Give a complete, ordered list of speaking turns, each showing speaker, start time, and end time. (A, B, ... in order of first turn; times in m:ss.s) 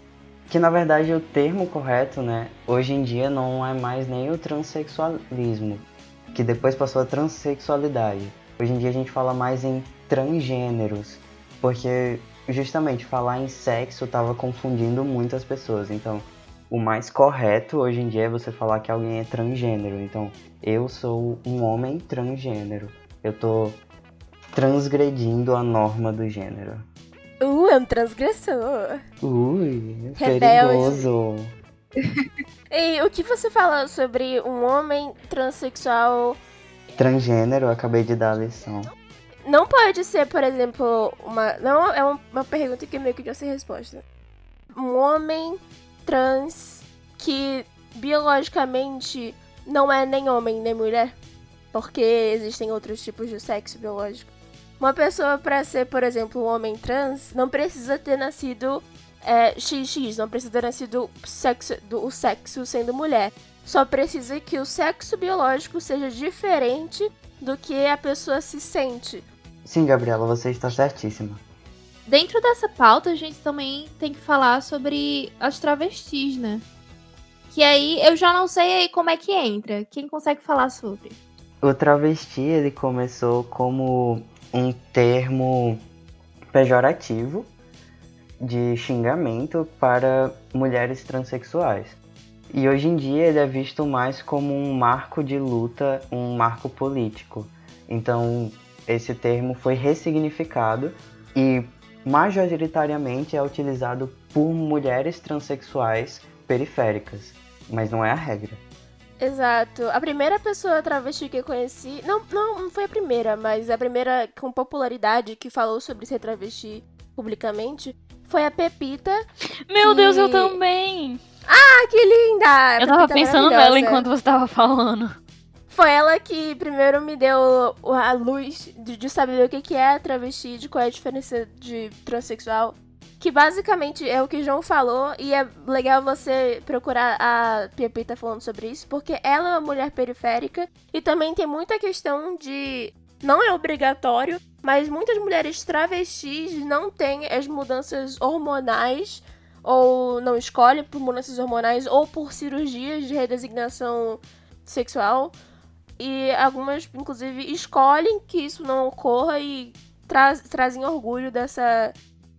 0:00.5-0:23.8 A
0:24.5-0:26.9 A
0:27.4-0:29.0 B
0:29.2-0:31.5 A
0:30.2-0:31.1 B
0:32.7-0:36.4 B
0:37.0-0:38.9 A
0:39.5-0:44.0 B
0:44.8-0:51.2 B
0:51.7-1:09.2 B
1:09.6-1:11.4 A
1:12.1-1:16.6 C
1:17.5-1:21.2 C
1:21.6-1:25.8 A
1:26.5-1:27.5 A
1:28.4-1:32.0 A
1:32.5-1:48.6 A
1:49.2-1:59.2 B
1:59.7-2:01.2 D
1:59.8-2:00.6 B
2:01.5-2:04.0 B
2:02.8-2:05.2 D
2:05.7-2:35.3 B
2:36.0-2:42.0 B